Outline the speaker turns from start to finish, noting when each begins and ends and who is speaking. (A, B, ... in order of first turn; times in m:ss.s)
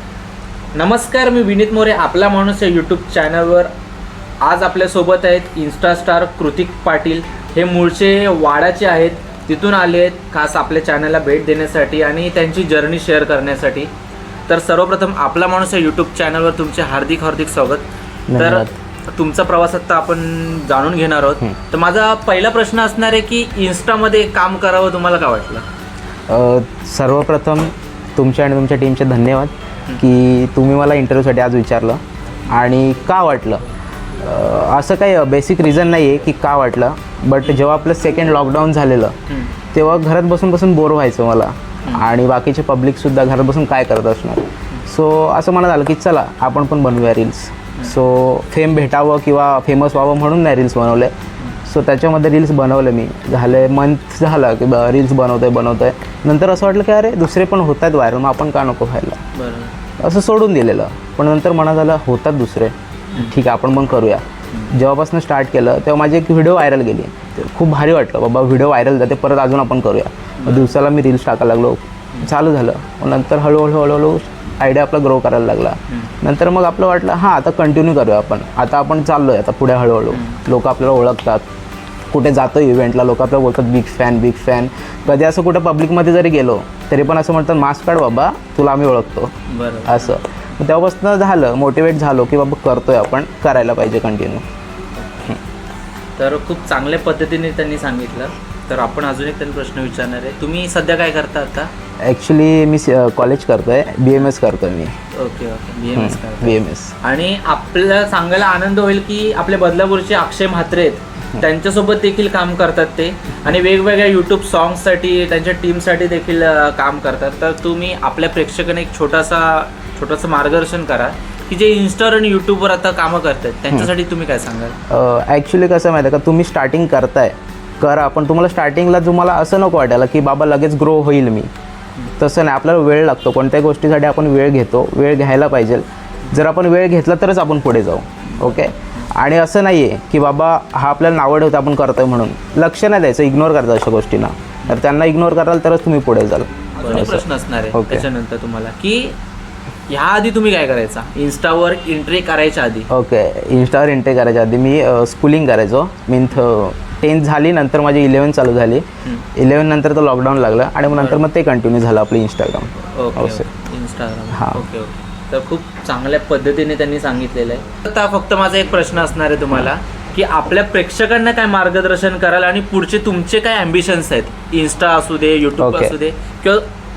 0:00.7-0:03.7 A
0:04.4-0:13.9 A
0:14.5-0:25.6 A
0:18.3-0:18.7 B
0:26.3-0:33.6 B
0:34.2-0:39.1 B
0:39.3-0:39.5 A
0:39.7-0:51.1 B
0:51.6-0:59.2 B
0:59.3-0:59.7 A
1:00.0-1:21.4 B
1:10.4-1:10.8 A
1:20.1-1:20.4 A
1:22.1-1:29.3 B
1:29.5-1:30.2 A
1:29.8-1:34.4 B
1:36.2-1:41.7 A
1:42.0-1:44.9 B
1:45.1-2:04.8 A
1:45.9-1:46.9 B
2:04.9-2:11.5 B
2:12.2-2:28.0 B
2:18.3-2:19.1 A
2:26.8-2:29.2 A
2:29.9-2:32.9 A
2:32.9-2:38.8 B
2:39.4-2:43.5 B
2:40.9-2:41.2 A
2:42.9-2:56.7 A
2:44.3-2:44.6 B
2:55.6-2:56.0 B